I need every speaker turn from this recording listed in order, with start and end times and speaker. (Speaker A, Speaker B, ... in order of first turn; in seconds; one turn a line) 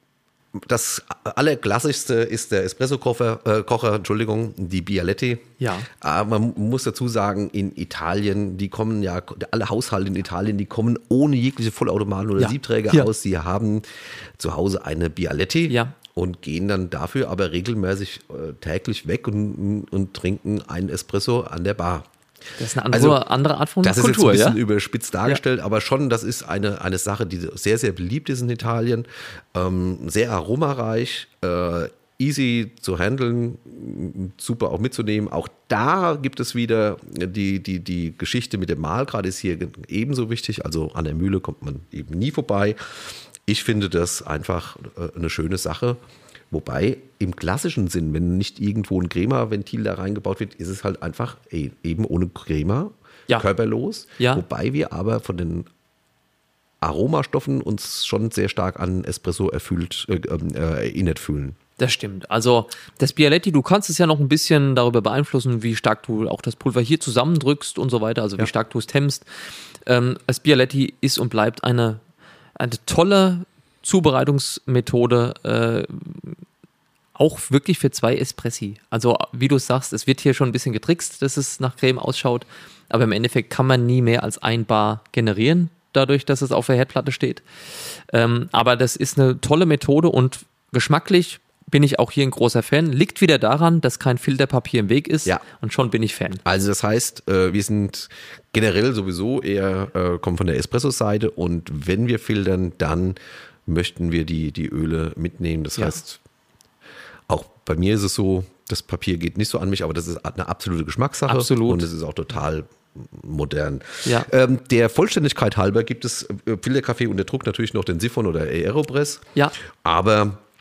Speaker A: 0.5-13.8
Speaker B: 5.6-5.9
Speaker B: 12.4-13.1
Speaker A: 14.4-22.1
Speaker B: 15.7-15.9
Speaker B: 22.6-24.6
Speaker A: 22.9-23.2
Speaker A: 23.8-46.0
Speaker A: 46.5-55.7
Speaker A: 56.8-61.6
Speaker B: 61.8-69.2
Speaker B: 69.8-72.0
Speaker B: 72.6-76.4
Speaker B: 77.2-87.4
Speaker B: 88.1-96.4
Speaker A: 96.4-106.2
Speaker A: 107.3-119.3
Speaker B: 111.3-111.9
Speaker A: 119.8-120.4